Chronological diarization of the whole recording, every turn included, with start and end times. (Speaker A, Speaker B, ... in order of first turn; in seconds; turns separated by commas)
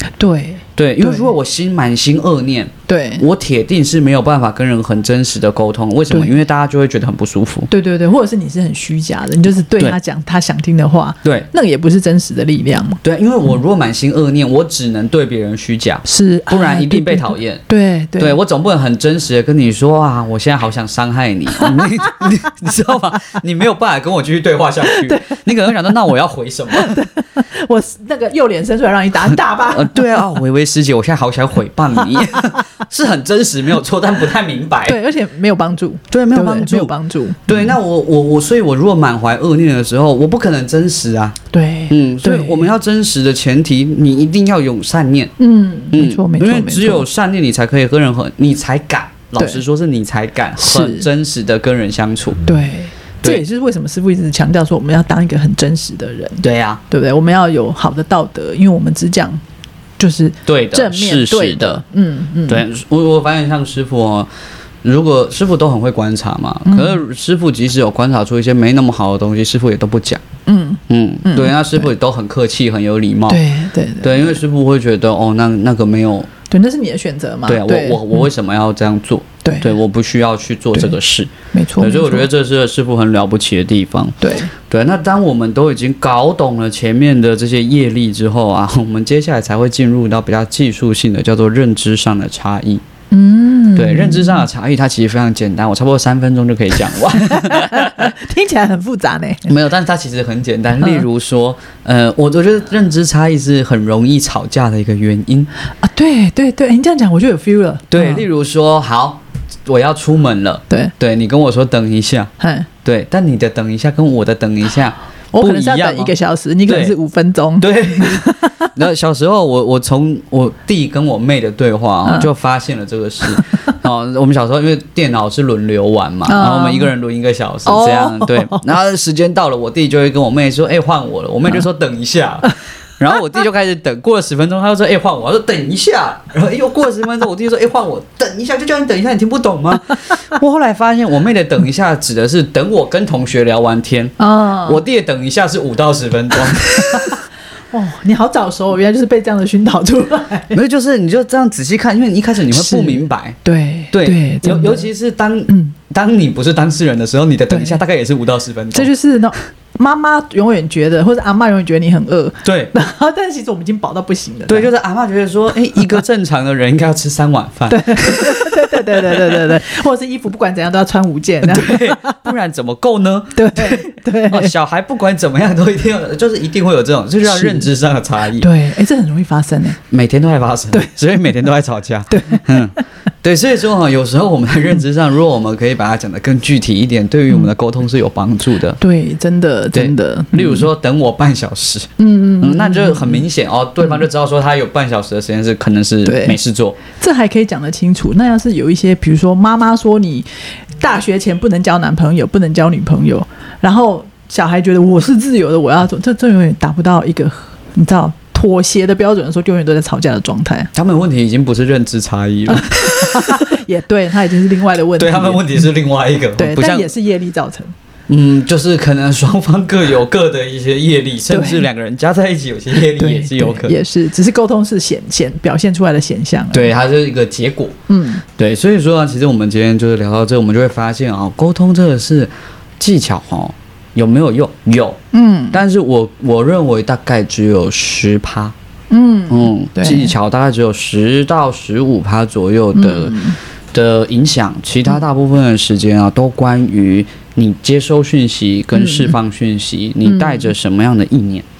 Speaker A: 0.2-1.3, Speaker B: 0.8-7.7, Speaker A: 2.9-3.2, Speaker A: 6.1-6.4, Speaker A: 7.7-13.0, Speaker B: 13.0-17.6, Speaker A: 16.0-18.4, Speaker B: 18.2-27.1, Speaker A: 21.6-22.3, Speaker A: 24.9-25.4, Speaker A: 26.7-30.3, Speaker B: 29.3-35.0, Speaker A: 34.8-37.7, Speaker B: 36.1-36.9, Speaker B: 37.5-41.4, Speaker A: 41.5-42.7, Speaker B: 41.9-45.3, Speaker A: 45.4-47.0, Speaker B: 45.9-52.4, Speaker A: 50.6-51.0, Speaker A: 52.5-59.4, Speaker B: 56.4-56.8, Speaker A: 60.0-62.6, Speaker B: 60.5-61.8, Speaker B: 62.5-64.3, Speaker B: 64.8-70.2, Speaker A: 66.7-67.0, Speaker A: 70.5-71.8, Speaker B: 70.9-73.4, Speaker A: 73.3-74.3, Speaker B: 74.0-76.3, Speaker A: 76.5-78.3, Speaker B: 77.5-92.8, Speaker A: 79.4-79.8, Speaker A: 81.5-82.3, Speaker A: 84.2-84.5, Speaker A: 93.1-94.5, Speaker B: 93.8-98.1, Speaker A: 97.2-99.5, Speaker B: 99.5-105.5, Speaker A: 105.8-108.2, Speaker B: 107.9-112.3, Speaker A: 112.4-112.7, Speaker B: 112.8-116.1, Speaker A: 115.3-118.7, Speaker B: 116.6-116.9, Speaker B: 117.6-147.2, Speaker A: 126.3-126.9, Speaker A: 127.7-128.7, Speaker A: 144.2-144.8, Speaker A: 146.7-147.2, Speaker A: 147.7-150.6, Speaker B: 150.5-153.4, Speaker A: 152.5-154.9, Speaker B: 153.9-158.9, Speaker A: 155.5-155.7, Speaker A: 157.5-157.8, Speaker A: 158.7-164.7, Speaker B: 162.4-162.7, Speaker B: 164.5-169.4, Speaker A: 167.7-172.2, Speaker B: 171.4-178.5, Speaker A: 173.3-174.5, Speaker A: 177.3-177.6, Speaker A: 178.4-179.8, Speaker B: 179.9-188.8, Speaker A: 182.1-182.8, Speaker A: 188.8-190.7, Speaker B: 189.7-196.8, Speaker A: 192.0-193.2, Speaker A: 196.0-196.4, Speaker A: 196.9-200.2, Speaker A: 200.8-210.7, Speaker B: 210.7-213.6, Speaker A: 212.5-215.7, Speaker B: 215.0-216.9, Speaker A: 216.4-217.7, Speaker B: 218.1-223.8, Speaker A: 221.3-221.7, Speaker A: 222.7-226.7, Speaker B: 226.5-227.8, Speaker A: 227.9-228.2, Speaker B: 228.3-235.0, Speaker A: 235.1-235.6, Speaker B: 235.5-238.5, Speaker A: 238.9-240.1, Speaker B: 239.3-243.2, Speaker A: 242.7-243.4, Speaker B: 243.7-251.5, Speaker A: 248.8-249.1, Speaker A: 250.0-250.5